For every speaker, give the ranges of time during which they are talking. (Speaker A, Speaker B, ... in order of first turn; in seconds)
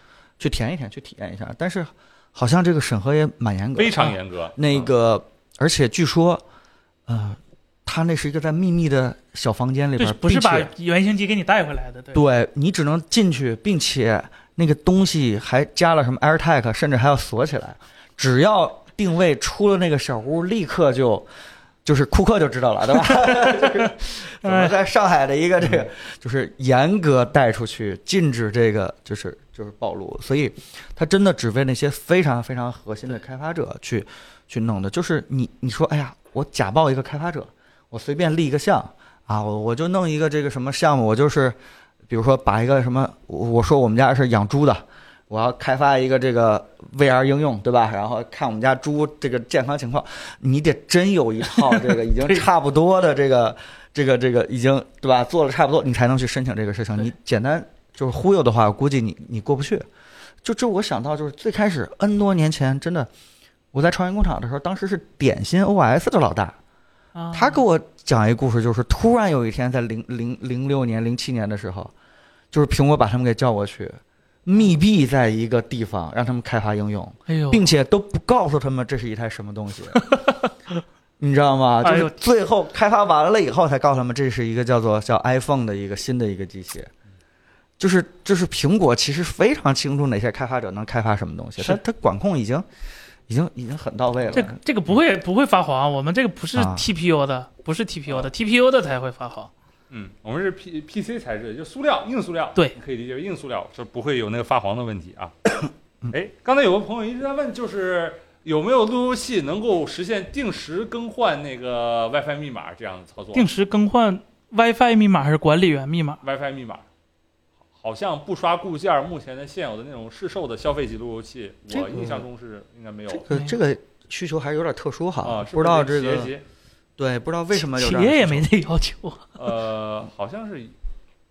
Speaker A: 0.4-6.4, 7.1-10.7, 12.1-21.3, 21.8-41.6, 42.1-59.9, 60.4-63.1, 63.7-66.6, 67.3-71.9, 72.5-80.1, 81.2-86.9, 87.8-92.6, 93.3-94.6, 96.5-96.9, 121.7-122.2, 123.1-126.3, 127.0-128.5
Speaker B: 3.8-4.9, 99.9-105.3, 106.1-113.4, 116.2-116.8, 117.8-123.2, 125.2-126.4, 129.4-130.7
Speaker C: 10.0-12.2, 23.3-23.9, 24.4-24.8, 67.2-67.6, 77.3-77.7, 80.0-80.3, 81.8-82.1, 94.3-99.5, 113.3-116.2, 123.3-123.6, 127.5-129.3